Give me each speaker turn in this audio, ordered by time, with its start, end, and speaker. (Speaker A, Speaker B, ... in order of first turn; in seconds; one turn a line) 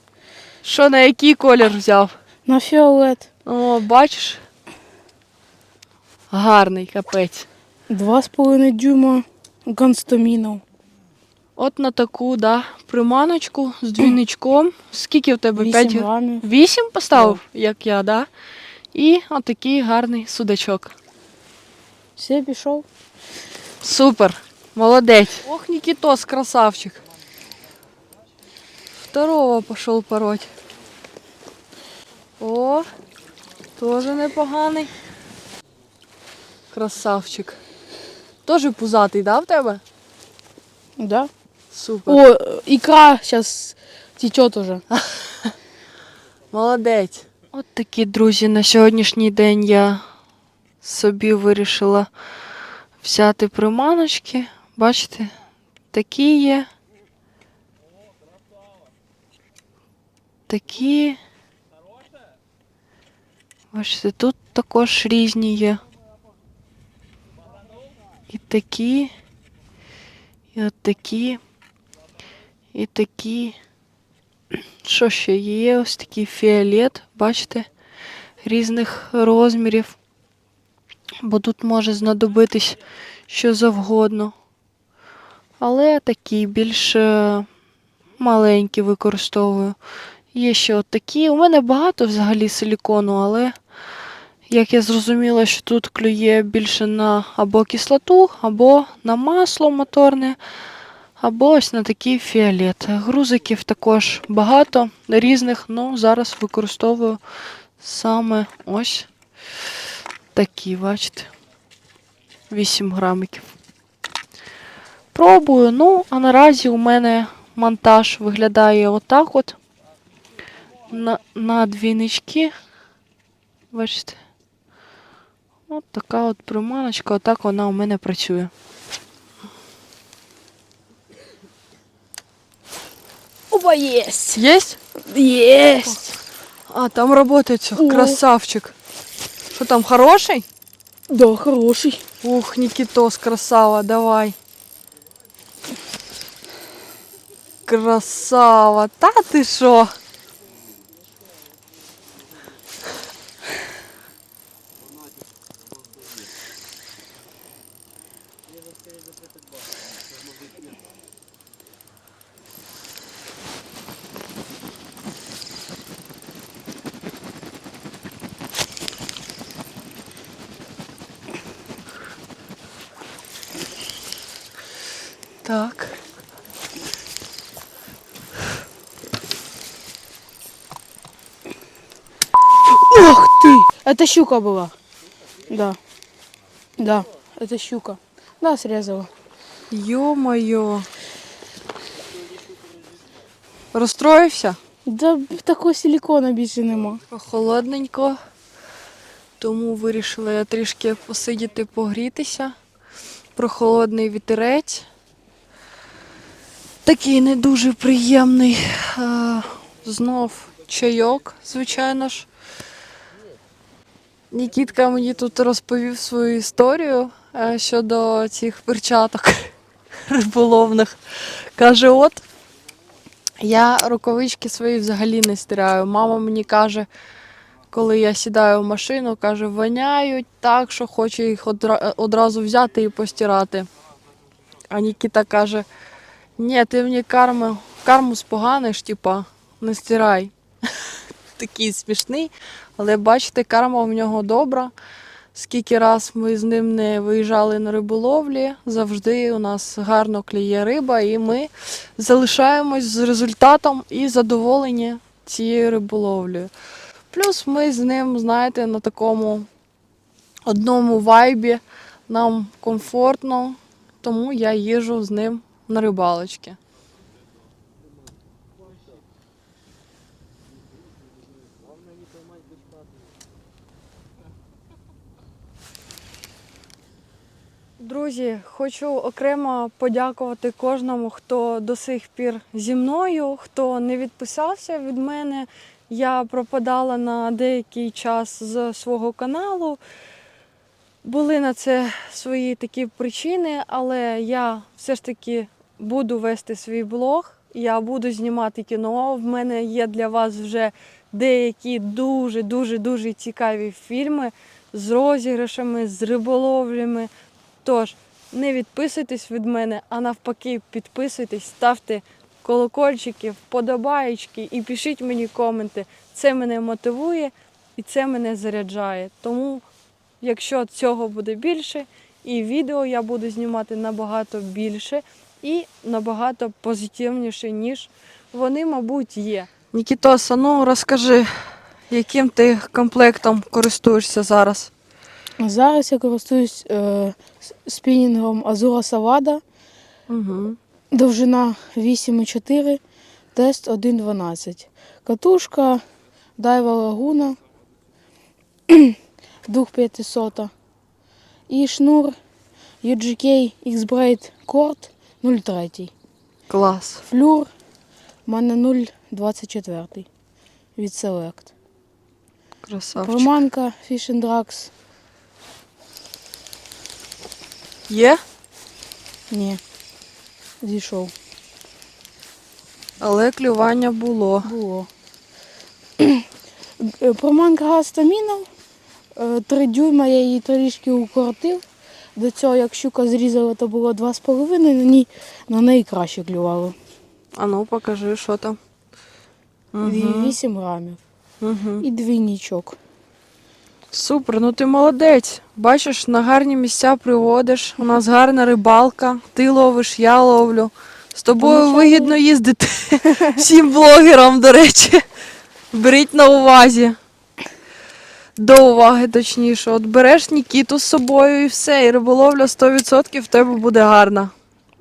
Speaker A: 0.6-2.1
Speaker B: 2.5-3.2
Speaker A: 3.4-4.4
Speaker A: 6.3-7.5
Speaker B: 7.9-10.6
Speaker A: 11.6-18.3
Speaker B: 15.6-16.5
Speaker B: 17.1-17.4
Speaker A: 18.9-20.9
Speaker B: 22.2-22.9
Speaker A: 23.8-27.0
Speaker A: 29.1-30.5
Speaker A: 32.4-32.9
Speaker A: 33.8-34.9
Speaker A: 36.7-37.6
Speaker A: 38.4-39.8
Speaker B: 41.0-41.3
Speaker A: 41.7-42.2
Speaker B: 42.1-44.8
Speaker A: 45.0-45.5
Speaker A: 46.5-50.0
Speaker A: 50.8-52.1
Speaker A: 53.0-55.3
Speaker A: 55.9-56.7
Speaker A: 60.5-61.2
Speaker A: 63.7-65.8
Speaker A: 68.3-69.1
Speaker A: 70.5-71.4
Speaker A: 72.7-73.5
Speaker A: 74.8-77.7
Speaker A: 78.4-80.0
Speaker A: 81.2-84.3
Speaker A: 85.6-87.5
Speaker A: 88.2-89.8
Speaker A: 90.3-93.5
Speaker A: 94.5-100.4
Speaker A: 101.2-107.2
Speaker A: 107.8-109.1
Speaker A: 110.3-111.3
Speaker A: 112.5-113.5
Speaker A: 115.1-119.6
Speaker A: 120.9-122.5
Speaker A: 123.7-124.2
Speaker A: 125.7-128.5
Speaker B: 133.5-134.4
Speaker A: 134.3-134.8
Speaker B: 135.0-136.1
Speaker A: 136.7-138.7
Speaker B: 137.8-138.2
Speaker A: 139.5-140.4
Speaker B: 141.1-142.0
Speaker A: 142.2-144.3
Speaker A: 147.7-149.9
Speaker A: 175.4-176.0
Speaker B: 182.7-184.7
Speaker B: 185.5-185.8
Speaker B: 186.8-189.1
Speaker A: 189.7-190.9
Speaker A: 193.7-194.6
Speaker B: 194.9-197.0
Speaker A: 197.1-198.2
Speaker A: 199.4-202.5
Speaker A: 203.3-204.8
Speaker A: 206.8-212.3
Speaker A: 214.3-219.5
Speaker A: 220.1-222.2
Speaker A: 223.4-226.9
Speaker A: 227.7-233.7
Speaker A: 234.7-235.7
Speaker A: 236.4-240.3
Speaker A: 241.3-244.7
Speaker A: 245.3-256.5
Speaker A: 257.1-259.5
Speaker A: 260.4-266.6
Speaker A: 277.8-289.8
Speaker A: 291.0-307.1
Speaker A: 307.6-319.6
Speaker A: 320.2-331.3
Speaker A: 331.9-334.7
Speaker B: 335.4-339.4
Speaker A: 340.1-340.6
Speaker B: 340.9-342.8
Speaker B: 343.3-345.8
Speaker B: 346.4-347.4
Speaker B: 348.7-350.5
Speaker B: 351.5-352.1
Speaker B: 352.8-355.9
Speaker A: 356.5-357.0
Speaker B: 357.1-357.5
Speaker B: 358.3-360.1
Speaker B: 360.8-361.5
Speaker A: 362.6-363.3
Speaker B: 363.0-364.7
Speaker A: 367.9-368.2
Speaker B: 369.3-369.6
Speaker B: 370.6-371.1
Speaker A: 373.0-374.5
Speaker B: 374.4-374.9
Speaker B: 376.0-376.2
Speaker B: 376.8-378.5
Speaker B: 379.1-381.6
Speaker B: 382.1-386.8
Speaker A: 387.3-388.6
Speaker A: 389.7-390.4
Speaker B: 389.8-391.0
Speaker A: 391.4-391.9
Speaker B: 391.8-392.8
Speaker A: 393.9-405.0
Speaker B: 401.4-402.1
Speaker A: 405.7-407.0
Speaker A: 408.4-414.3